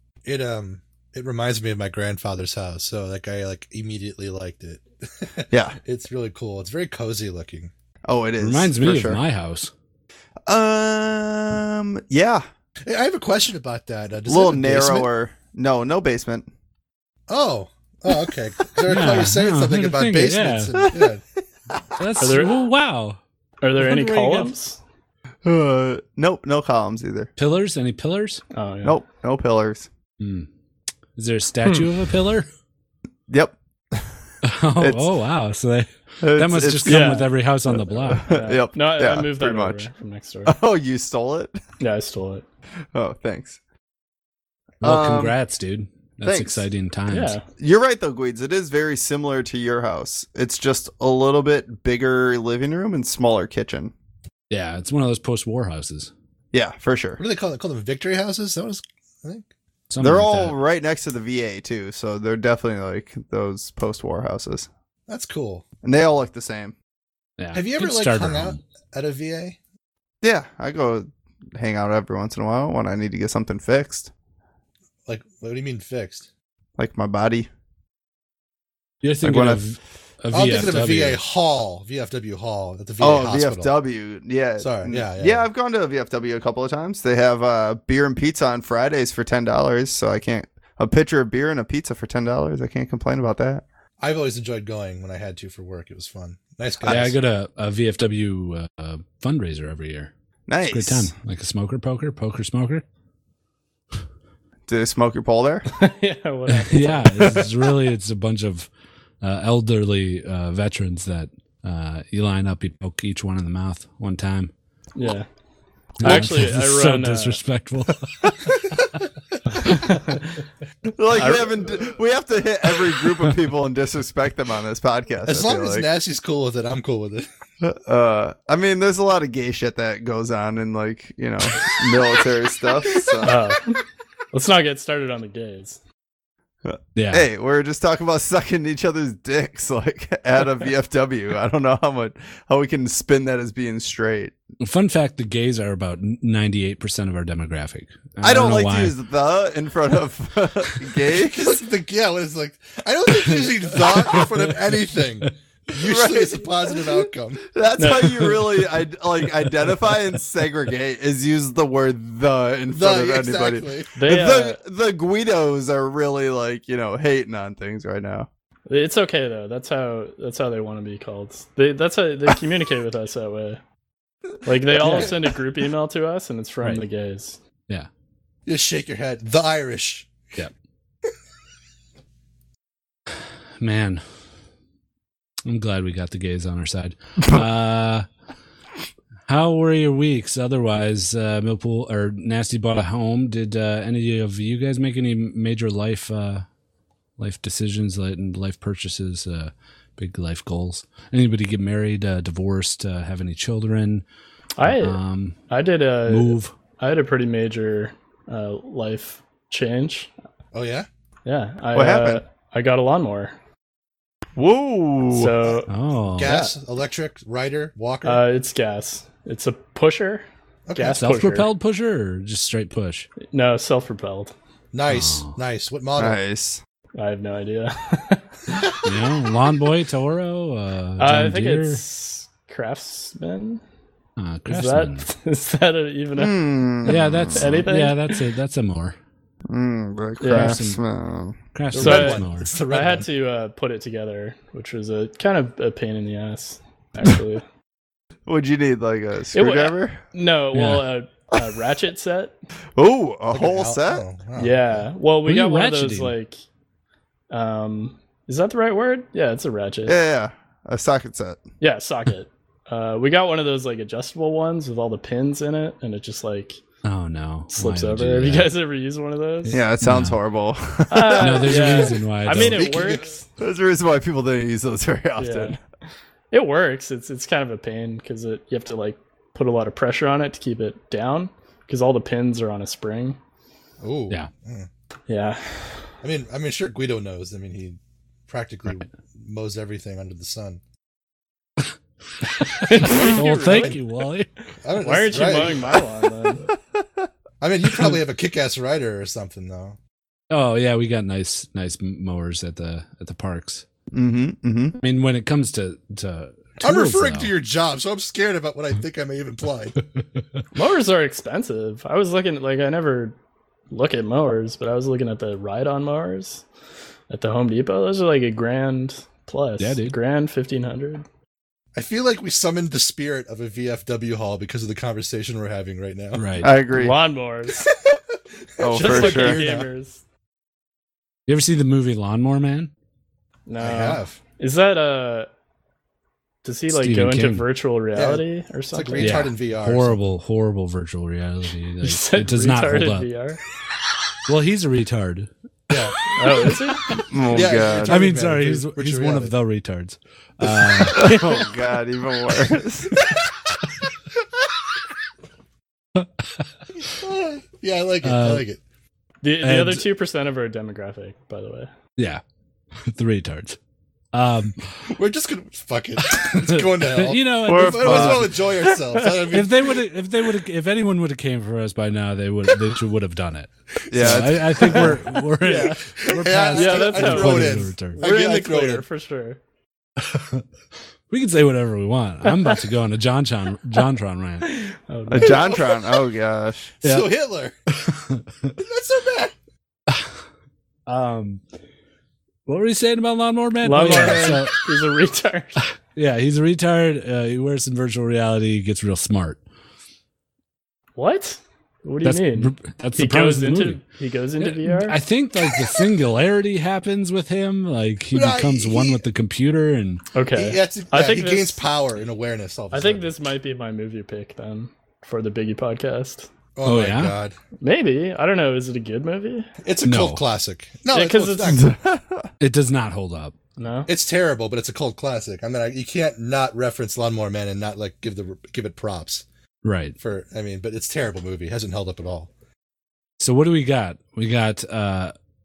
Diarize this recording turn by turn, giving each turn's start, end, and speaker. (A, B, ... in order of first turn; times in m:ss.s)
0:00.2-0:07.7 A
0:05.5-0:05.8 B
0:08.0-0:09.2 B
0:08.4-0:09.7 C
0:10.5-0:12.4 B
0:12.8-0:15.1 A
0:14.3-0:16.5 B
0:17.3-0:21.2 A
0:18.9-0:20.7 C
0:22.0-0:23.2 C
0:22.2-0:22.6 D
0:23.6-0:24.8 D
0:23.8-0:24.5 C
0:25.4-0:27.3 B
0:27.4-0:28.4 C
0:28.5-0:29.0 D
0:28.8-0:29.9 B
0:30.2-0:30.5 C
0:31.2-0:32.5 C
0:33.3-0:34.0 B
0:34.4-0:38.2 C
0:34.8-0:35.1 B
0:36.2-0:39.9 B
0:36.8-0:37.3 D
0:38.3-0:40.5 D
0:40.4-0:41.6 B
0:41.8-0:42.4 D
0:42.9-0:43.6 B
0:44.8-0:45.4 B
0:44.8-0:47.4 C
0:46.2-0:46.6 B
0:47.1-0:47.4 D
0:47.6-0:53.9 B
0:54.5-0:56.1 C
0:56.5-0:57.2 B
0:57.2-0:59.4 A
0:59.9-1:00.6 C
1:00.0-1:04.7 B
1:05.1-1:05.6 A
1:05.8-1:06.7 B
1:07.4-1:08.6 C
1:07.5-1:09.6 A
1:10.2-1:14.1 B
1:15.1-1:16.3 A
1:16.8-1:17.5 B
1:19.0-1:21.2 C
1:19.2-1:19.6 B
1:20.3-1:23.7 A
1:23.0-1:33.6 B
1:24.6-1:25.4 A
1:34.0-1:37.2 A
1:36.8-1:40.1 C
1:40.5-1:41.1 B
1:40.7-1:42.8 C
1:44.7-1:45.7 B
1:45.8-1:47.7 D
1:46.6-1:48.7 C
1:49.2-1:54.5 C
1:54.9-1:55.3 D
1:56.0-1:57.4 D
1:56.0-1:58.1 C
1:59.6-2:00.4 D
2:01.0-2:05.9 B
2:05.2-2:07.3 A
2:07.6-2:13.4 B
2:13.0-2:13.3 A
2:13.2-2:13.8 D
2:14.3-2:15.8 D
2:16.6-2:24.3 B
2:16.9-2:17.3 C
2:24.6-2:28.9 C
2:28.2-2:31.6 B
2:31.3-2:37.4 A
2:35.8-2:48.3 B
2:37.8-2:38.4 D
2:42.7-2:44.0 A
2:44.0-2:44.6 D
2:48.7-2:53.6 D
2:54.4-2:57.4 D
2:54.8-2:55.2 A
2:54.8-2:55.1 C
2:58.4-3:00.1 A
3:03.6-3:04.0 C
3:05.4-3:08.1 C
3:09.3-3:16.4 C
3:17.2-3:24.0 C
3:24.6-3:25.0 D
3:24.6-3:25.4 C
3:25.5-3:30.1 D
3:26.1-3:26.5 C
3:30.5-3:30.9 A
3:31.2-3:33.3 D
3:31.7-3:32.2 B
3:34.4-3:35.4 B
3:35.1-3:35.7 D
3:35.7-3:36.3 C
3:36.2-3:38.2 A
3:36.2-3:36.5 D
3:38.0-3:41.5 D
3:40.7-3:41.0 A
3:40.9-3:43.1 C
3:43.3-3:44.3 D
3:44.7-3:46.2 A
3:44.9-3:45.4 C
3:46.0-3:46.6 B
3:47.0-3:48.2 D
3:48.8-3:51.8 C
3:51.0-3:53.6 D
3:54.2-3:55.0 C
3:54.5-3:56.5 D
3:56.1-3:57.5 B
3:56.8-3:59.0 C
3:57.3-3:58.2 D
3:59.5-4:01.4 B
4:00.2-4:00.6 D
4:00.3-4:00.8 C
4:01.5-4:02.5 C
4:01.7-4:03.1 A
4:01.8-4:07.4 D
4:08.3-4:10.0 B
4:09.3-4:12.3 D
4:10.5-4:10.8 C
4:12.8-4:14.0 B
4:13.3-4:14.8 A
4:14.4-4:16.4 D
4:15.2-4:16.1 C
4:17.3-4:20.0 D
4:19.8-4:21.4 B
4:21.6-4:26.6 D
4:26.8-4:28.5 C
4:27.5-4:29.6 D
4:29.4-4:30.2 C
4:29.5-4:31.8 B
4:30.9-4:33.2 D
4:31.2-4:32.9 C
4:32.3-4:33.2 A
4:33.4-4:35.6 B
4:35.2-4:35.6 D
4:36.3-4:43.2 D
4:43.8-4:44.7 A
4:45.1-4:45.9 D
4:46.0-4:50.6 A
4:52.4-4:54.3 C
4:52.7-4:53.8 D
4:53.4-4:53.8 A
4:54.6-4:55.8 A
4:54.8-4:56.4 D
4:56.5-4:57.1 B
4:57.4-4:59.8 A
5:00.3-5:03.6 C
5:03.9-5:04.8 B
5:04.8-5:07.3 C
5:06.6-5:09.8 A
5:10.5-5:13.1 D
5:13.7-5:16.4 D
5:17.1-5:21.0 D
5:19.6-5:19.9 C
5:21.7-5:26.2 A
5:26.1-5:26.5 C
5:26.4-5:27.0 B
5:26.7-5:27.7 D
5:28.6-5:29.5 B
5:28.6-5:29.7 A
5:28.7-5:30.0 D
5:31.3-5:32.7 C
5:33.5-5:35.3 D
5:33.6-5:34.2 A
5:36.4-5:39.3 D
5:36.7-5:37.4 C
5:37.9-5:40.0 A
5:39.0-5:43.1 C
5:41.8-5:43.4 D
5:44.3-5:45.3 C
5:45.7-5:46.0 A
5:46.1-5:47.0 D
5:47.1-5:48.0 B
5:47.3-5:49.3 A
5:47.8-5:51.1 C
5:50.4-5:51.1 A
5:50.9-5:53.0 B
5:56.8-5:58.6 A
5:58.0-5:58.4 C
5:59.2-6:01.7 D
5:59.4-5:59.8 C
6:02.0-6:02.2 C
6:02.8-6:03.6 C
6:04.1-6:04.6 C
6:04.9-6:09.7 A
6:06.2-6:08.3 C
6:07.4-6:08.5 B
6:09.3-6:18.0 C
6:13.9-6:14.8 B
6:13.9-6:18.8 A
6:15.4-6:15.7 B
6:16.5-6:19.4 D
6:20.1-6:20.4 C
6:21.1-6:24.5 C
6:22.3-6:22.6 D
6:24.4-6:25.7 D
6:25.1-6:26.7 B
6:25.2-6:25.8 A
6:26.8-6:27.5 A
6:26.8-6:27.1 C
6:27.8-6:28.5 C
6:28.6-6:29.3 A
6:30.9-6:31.4 C
6:32.5-6:34.6 C
6:33.6-6:35.6 D
6:35.9-6:39.4 C
6:41.0-6:45.0 D
6:42.0-6:43.8 C
6:44.4-6:50.0 C
6:48.1-6:49.0 A
6:50.1-6:51.6 D
6:50.3-6:53.1 A
6:52.7-6:56.3 D
6:56.6-6:57.4 A
6:56.6-6:57.2 C
6:57.6-6:59.5 D
6:59.6-7:01.7 A
6:59.8-7:00.2 C
7:00.9-7:01.6 D
7:01.5-7:02.3 B
7:02.4-7:03.3 C
7:03.6-7:03.9 D
7:03.9-7:09.2 A
7:09.6-7:10.0 C
7:10.0-7:12.3 A
7:13.2-7:15.1 C